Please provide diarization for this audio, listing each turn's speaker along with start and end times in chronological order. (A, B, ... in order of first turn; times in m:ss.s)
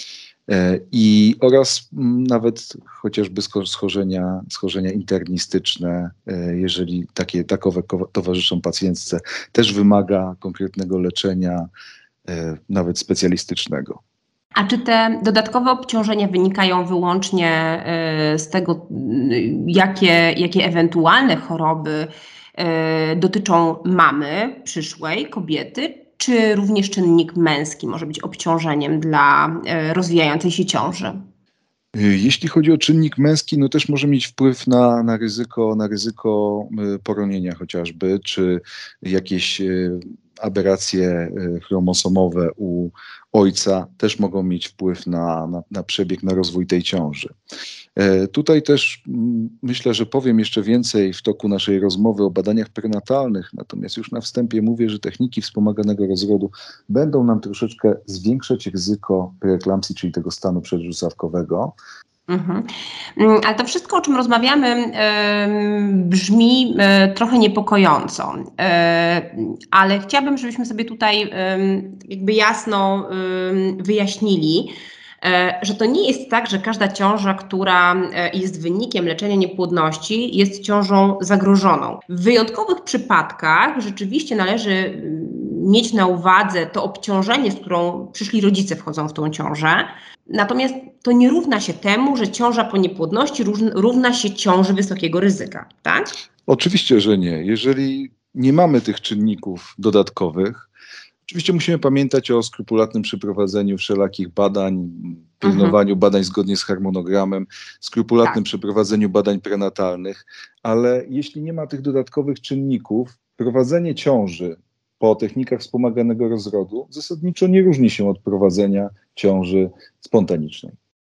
0:00.5-0:11.7 A
0:12.2-0:14.0 A
0:14.6-0:31.2 B
0:31.9-0:47.3 A
0:48.0-1:01.7 A
1:02.3-1:36.1 B
1:36.5-1:40.7 A
1:41.3-2:00.7 A
1:45.4-1:45.8 B